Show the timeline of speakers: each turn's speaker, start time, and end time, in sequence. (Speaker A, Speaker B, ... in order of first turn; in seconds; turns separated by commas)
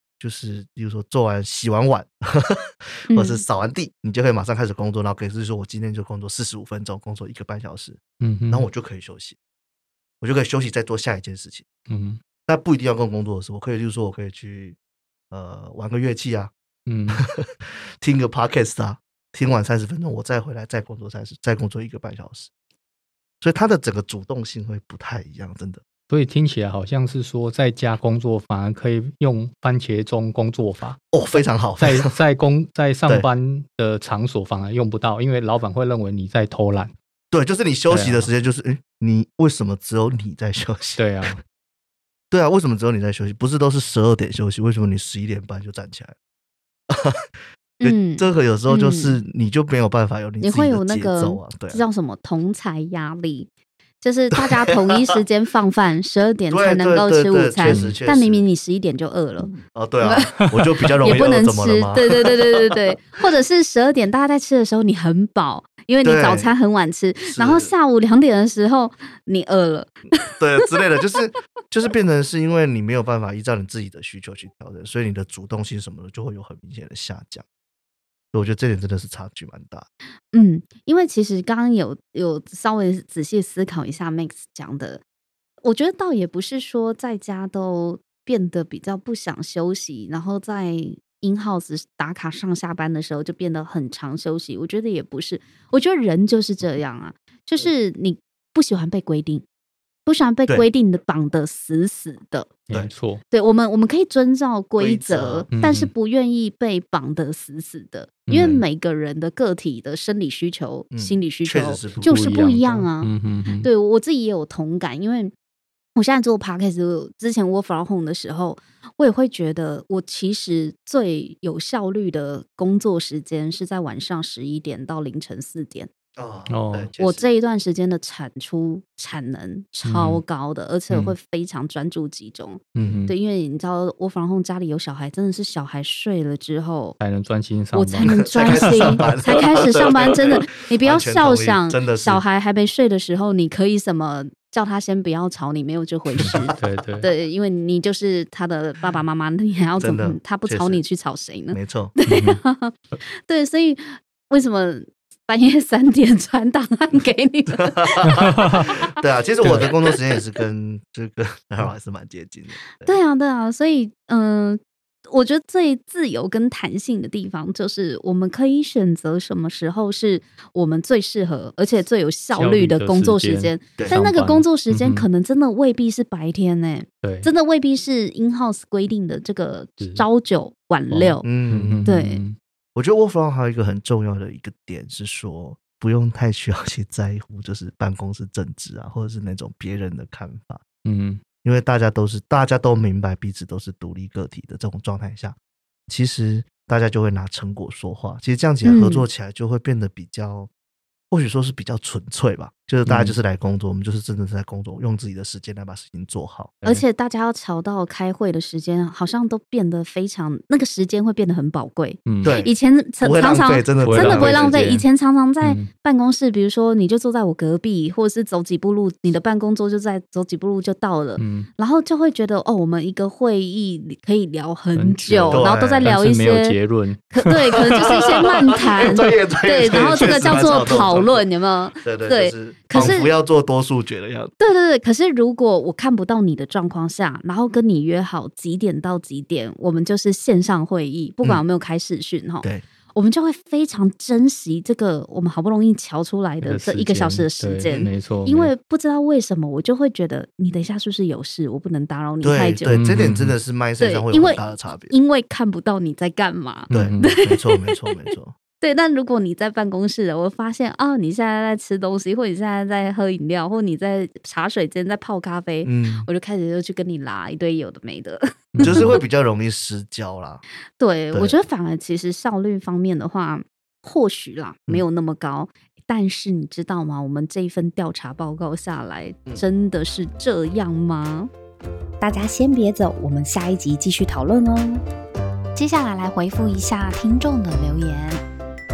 Speaker A: 0.2-9.4, Speaker B: 3.1-3.4, Speaker C: 8.2-8.7, Speaker A: 10.2-11.7, Speaker C: 11.9-12.2, Speaker A: 12.4-14.8, Speaker A: 15.3-16.5, Speaker C: 16.9-17.2, Speaker A: 17.1-22.5, Speaker A: 23.4-25.8, Speaker C: 26.1-31.0, Speaker A: 31.1-32.1, Speaker C: 31.8-36.9, Speaker A: 37.3-41.4, Speaker C: 37.9-38.3, Speaker C: 41.0-41.4, Speaker A: 42.3-46.1, Speaker A: 46.9-47.3, Speaker B: 47.8-49.2, Speaker A: 47.8-51.8, Speaker B: 50.4-53.5, Speaker B: 54.0-60.5, Speaker A: 56.5-58.5, Speaker C: 57.7-58.0, Speaker A: 59.6-62.7, Speaker B: 61.0-70.0, Speaker A: 66.0-66.5, Speaker A: 67.3-67.7, Speaker A: 70.2-77.4, Speaker A: 78.3-79.9, Speaker B: 80.3-85.0, Speaker B: 85.6-99.4, Speaker B: 100.0-102.5, Speaker C: 102.7-103.2, Speaker B: 103.3-113.1, Speaker A: 104.8-105.5, Speaker C: 105.5-105.9, Speaker C: 108.3-108.6, Speaker A: 110.9-112.2, Speaker C: 112.0-113.7, Speaker B: 113.6-115.3, Speaker B: 115.9-125.9, Speaker A: 126.2-127.2, Speaker C: 126.5-126.9, Speaker B: 127.0-137.0, Speaker C: 129.8-130.2, Speaker C: 130.9-131.1, Speaker C: 132.8-133.1, Speaker C: 137.0-139.2, Speaker B: 137.7-158.9, Speaker A: 138.1-142.2, Speaker C: 146.2-147.1, Speaker A: 149.8-150.8, Speaker A: 151.5-151.9, Speaker C: 152.1-152.4, Speaker A: 157.6-163.0, Speaker B: 162.8-181.3, Speaker C: 172.3-175.1, Speaker C: 177.0-177.3, Speaker C: 179.8-180.1, Speaker C: 180.9-182.4, Speaker A: 181.2-181.8, Speaker B: 181.8-182.2, Speaker A: 182.7-190.6, Speaker C: 190.8-191.2, Speaker A: 191.4-195.3, Speaker A: 195.9-200.5, Speaker B: 198.6-199.1, Speaker A: 201.1-206.6, Speaker C: 202.9-203.2, Speaker B: 206.6-226.6, Speaker C: 212.1-212.4, Speaker A: 212.2-214.8, Speaker C: 213.8-214.8, Speaker C: 215.4-215.7, Speaker C: 221.2-221.5, Speaker C: 224.8-229.1, Speaker A: 225.3-225.9, Speaker B: 227.1-233.1, Speaker A: 227.7-231.2, Speaker C: 229.7-230.9, Speaker A: 231.8-234.3, Speaker B: 234.4-252.7, Speaker C: 246.4-248.5, Speaker A: 252.2-254.9, Speaker C: 252.7-253.3, Speaker B: 253.8-269.0, Speaker C: 256.7-257.2, Speaker A: 256.7-258.3, Speaker A: 265.6-266.1, Speaker C: 268.5-268.9, Speaker A: 268.6-270.4, Speaker B: 270.8-281.3, Speaker B: 282.0-284.8, Speaker B: 285.5-288.2